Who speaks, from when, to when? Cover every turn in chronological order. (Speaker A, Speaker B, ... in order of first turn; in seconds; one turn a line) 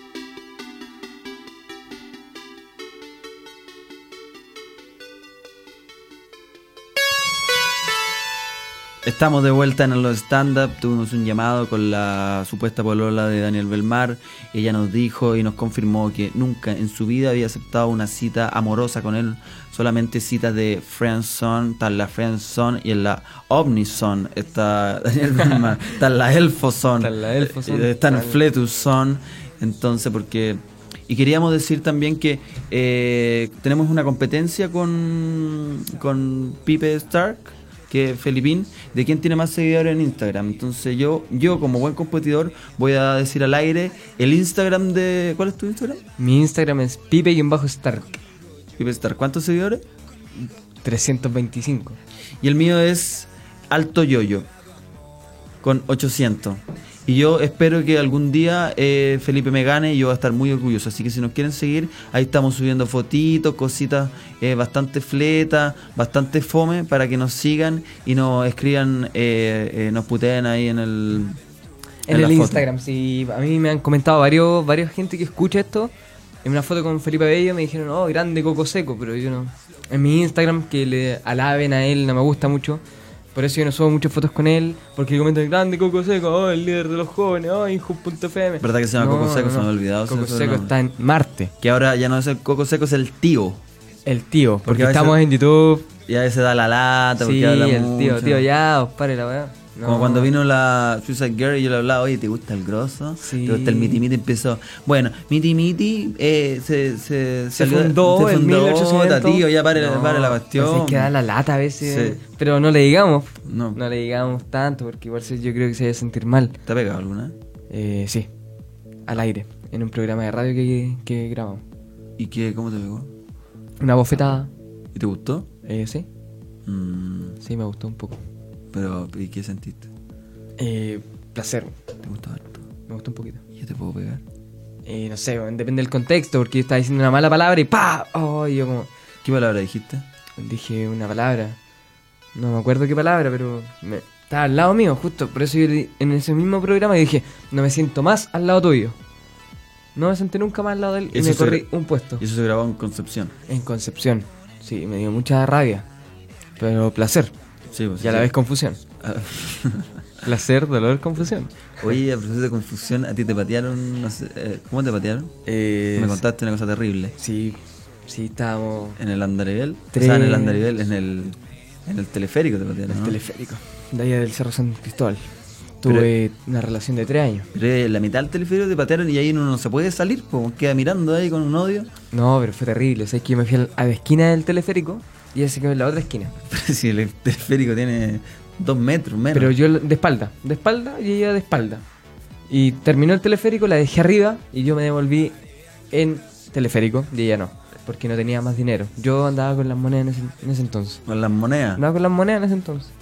Speaker A: 9.0-46.0
Speaker B: 27.0-28.4
Speaker B: 46.2-48.2
Speaker A: 48.8-49.9
Speaker B: 50.8-52.0
Speaker A: 52.4-54.5
Speaker A: 55.6-71.4
Speaker B: 72.1-75.9
Speaker A: 72.1-72.7
Speaker B: 76.4-82.8
Speaker B: 83.3-91.5
Speaker A: 88.6-90.8
Speaker A: 91.6-93.6
Speaker B: 94.1-95.9
Speaker A: 94.7-95.2
Speaker A: 96.1-98.5
Speaker B: 97.2-100.3
Speaker A: 99.8-111.1
Speaker B: 103.2-104.0
Speaker B: 107.5-116.6
Speaker A: 111.8-112.2
Speaker A: 113.5-113.8
Speaker A: 116.7-117.3
Speaker B: 117.7-118.3
Speaker B: 119.1-121.6
Speaker A: 122.2-123.1
Speaker B: 123.8-124.5
Speaker A: 124.9-125.5
Speaker B: 125.7-126.1
Speaker A: 126.7-127.4
Speaker B: 127.4-128.2
Speaker A: 128.7-129.9
Speaker B: 130.6-131.8
Speaker A: 132.0-132.7
Speaker B: 132.9-133.4
Speaker A: 133.6-134.2
Speaker B: 134.9-138.9
Speaker A: 139.2-140.1
Speaker B: 140.4-141.6
Speaker B: 142.3-149.0
Speaker B: 149.9-152.2
Speaker A: 151.1-153.3
Speaker B: 153.5-155.9
Speaker B: 156.6-157.3
Speaker A: 157.7-158.3
Speaker B: 158.0-158.8
Speaker A: 159.0-159.9
Speaker B: 160.2-161.9
Speaker A: 161.8-165.3
Speaker B: 165.5-166.2
Speaker A: 165.9-167.2
Speaker B: 167.2-169.0
Speaker A: 169.0-173.2
Speaker B: 169.9-170.6
Speaker B: 172.9-175.3
Speaker B: 175.8-177.5
Speaker A: 175.8-176.1
Speaker A: 177.5-181.9
Speaker B: 182.1-186.3
Speaker A: 186.5-189.6
Speaker B: 189.3-191.8
Speaker B: 192.5-195.3
Speaker B: 195.9-201.0
Speaker A: 201.1-201.8
Speaker B: 201.8-202.9